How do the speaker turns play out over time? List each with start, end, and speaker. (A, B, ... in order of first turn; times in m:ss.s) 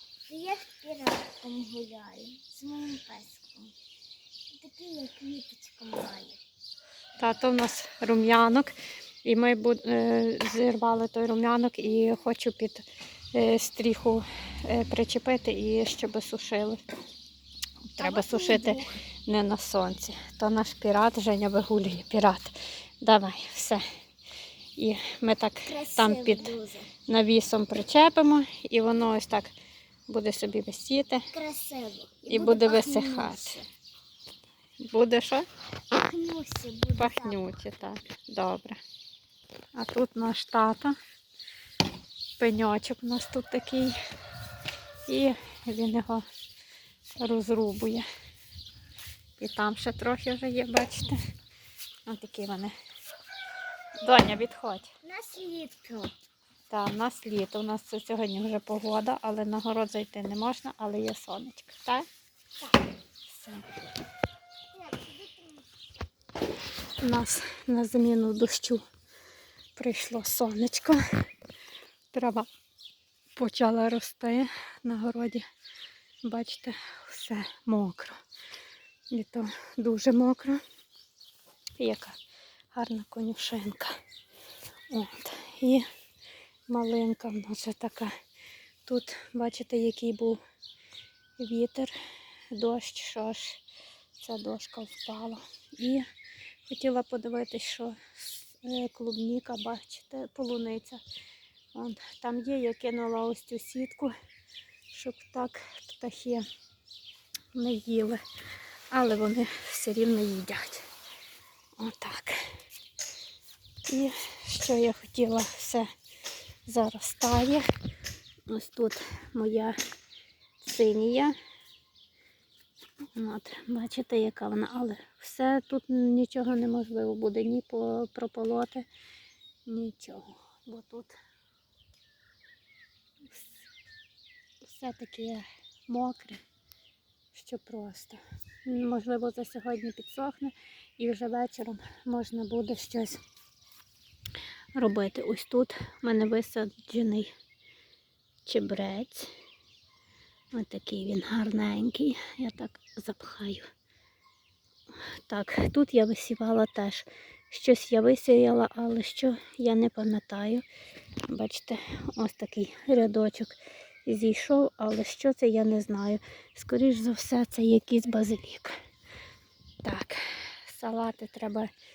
0:00.3-0:03.7 A
0:04.6-0:06.4 A
0:07.2-0:08.7 B
0:09.2-0:16.8 B
0:17.9-0:23.8 B
0:18.0-0:18.9 A
0:24.8-0:26.6 B
0:25.7-0:26.9 A
0:27.1-0:29.5 B
0:30.1-0:31.3 B
0:31.3-0:33.6 A
0:32.3-0:33.6 B
0:34.8-0:35.5 B
0:36.0-0:37.4 A
0:37.0-0:38.8 B
0:39.8-0:40.9 B
0:42.4-0:44.0 B
0:45.1-0:46.2 B
0:47.2-0:48.0 B
0:49.4-0:51.2 B
0:52.1-0:52.7 B
0:54.0-0:54.9 B
0:55.0-0:56.1 A
0:56.7-1:02.0 B
1:03.3-1:03.6 B
1:04.8-1:05.6 A
1:07.0-1:08.8 B
1:09.8-1:11.0 B
1:12.1-1:12.5 B
1:13.4-1:15.4 B
1:16.2-1:18.2 B
1:19.1-1:20.6 B
1:21.8-1:22.2 B
1:22.7-1:24.0 B
1:24.9-1:25.8 B
1:26.7-1:28.1 B
1:28.9-1:30.4 B
1:31.4-1:31.9 B
1:32.5-1:33.6 B
1:34.2-1:36.0 B
1:36.7-1:41.0 B
1:41.7-1:44.1 B
1:44.9-1:46.4 B
1:47.6-1:48.2 B
1:48.9-1:50.9 B
1:51.8-1:52.4 B
1:53.9-1:55.9 B
1:56.7-1:57.7 B
1:58.5-1:59.8 B
2:00.6-2:01.4 B
2:03.2-2:08.9 B
2:09.7-2:11.1 B
2:13.3-2:13.6 B
2:14.6-2:16.4 B
2:17.3-2:23.2 B
2:24.8-2:27.3 B
2:28.5-2:29.3 B
2:30.5-2:33.7 B
2:35.3-2:40.6 B
2:41.3-2:48.8 B
2:49.8-2:51.7 B